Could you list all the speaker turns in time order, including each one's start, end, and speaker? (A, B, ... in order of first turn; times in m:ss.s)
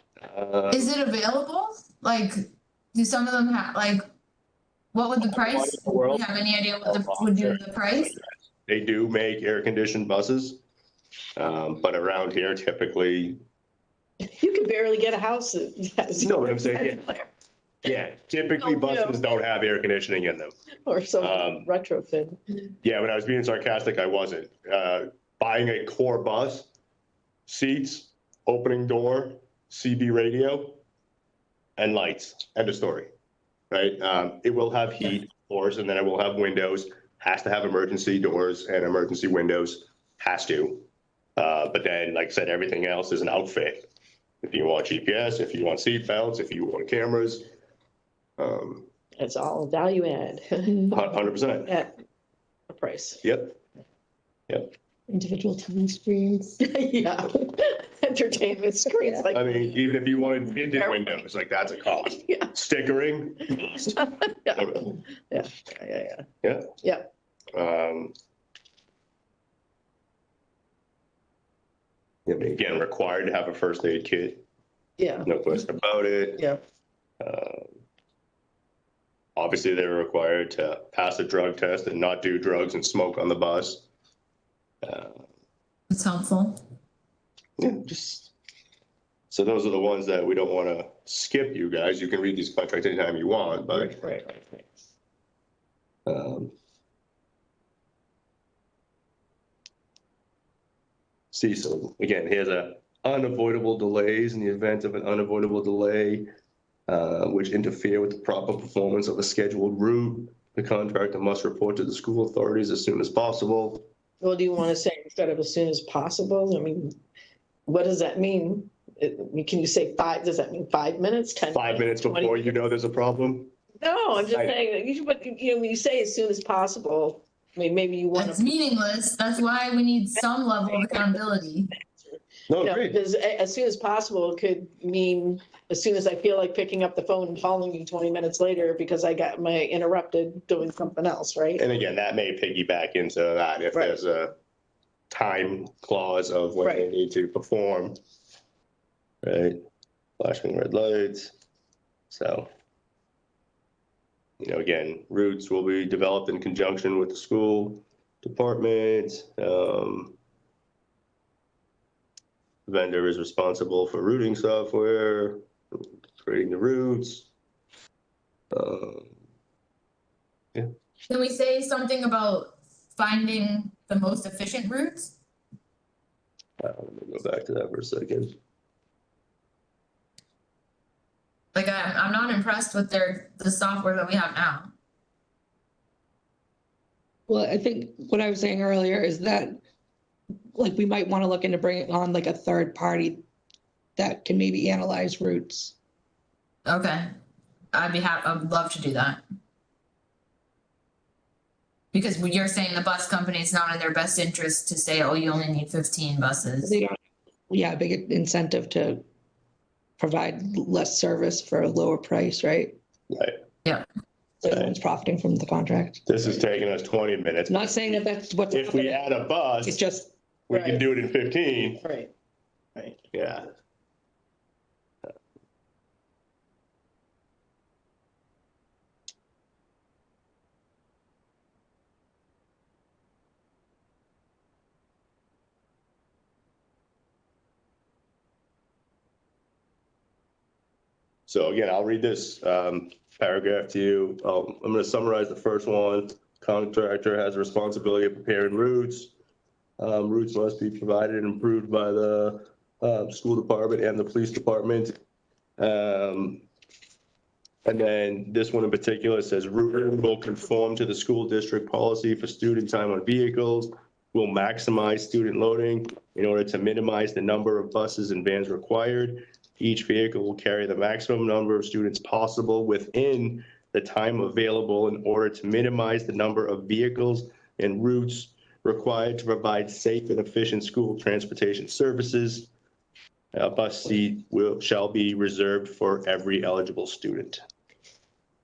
0:00.2-0:00.9 A
0:00.7-0:04.0 B
0:04.9-0:08.1 B
0:05.2-0:06.3 A
0:06.8-0:08.2 A
0:08.7-0:10.6 A
0:11.4-0:13.4 A
0:14.3-0:17.3 C
0:16.2-0:17.0 A
0:17.8-0:20.5 A
0:18.6-0:19.2 C
0:20.8-0:22.4 C
0:21.2-0:21.7 A
0:22.8-0:26.7 A
0:27.5-0:30.8 A
0:31.8-0:33.1 A
0:33.7-0:43.8 A
0:44.4-0:47.5 A
0:48.4-0:48.9 A
0:49.2-0:51.0 C
0:50.9-0:51.7 A
0:51.6-0:52.0 C
0:52.7-0:53.2 C
0:53.2-0:53.6 A
0:55.1-0:56.6 D
0:56.6-1:00.0 C
0:58.9-0:59.3 D
0:59.3-1:03.9 A
1:00.6-1:01.2 C
1:02.2-1:02.5 C
1:03.5-1:06.2 C
1:04.5-1:04.9 A
1:06.4-1:06.7 A
1:06.8-1:07.1 C
1:07.5-1:08.1 A
1:12.2-1:14.4 A
1:15.0-1:15.3 C
1:15.2-1:16.4 A
1:17.2-1:17.8 A
1:19.4-1:23.8 A
1:24.8-1:25.2 A
1:25.9-1:26.6 B
1:27.6-1:28.3 A
1:29.3-1:34.0 A
1:33.7-1:34.8 C
1:36.0-1:36.5 A
1:41.3-1:46.3 A
1:46.9-1:53.8 A
1:54.2-1:57.0 C
1:57.7-2:02.5 C
2:01.5-2:03.5 A
2:03.8-2:08.5 C
2:04.3-2:04.5 A
2:08.1-2:11.7 B
2:10.7-2:11.0 C
2:12.5-2:13.0 A
2:12.6-2:21.6 C
2:21.6-2:24.3 A
2:25.1-2:28.0 A
2:26.6-2:26.9 C
2:29.2-2:29.6 A
2:30.2-2:31.3 A
2:32.1-2:32.5 A
2:34.4-2:40.2 A
2:42.7-2:47.3 A
2:48.5-2:49.2 A
2:51.1-2:55.1 B
2:56.6-2:58.4 A
3:01.5-3:04.7 B
3:07.3-3:09.6 D
3:10.5-3:13.2 D
3:14.0-3:15.8 D
3:16.6-3:17.1 B
3:17.7-3:19.2 B
3:21.9-3:26.8 B
3:26.6-3:26.9 D
3:27.5-3:29.0 D
3:30.0-3:32.8 D
3:33.1-3:33.4 A
3:34.4-3:36.0 D
3:34.5-3:34.7 A
3:36.1-3:39.8 A
3:37.5-3:39.0 D
3:39.6-3:40.1 D
3:40.5-3:41.8 A
3:40.5-3:40.9 C
3:41.8-3:42.1 C
3:43.1-3:43.5 A
4:01.3-4:09.1 A
4:09.8-4:15.0 A
4:15.6-4:16.4 A
4:17.6-4:42.5 A
4:43.3-4:47.4 A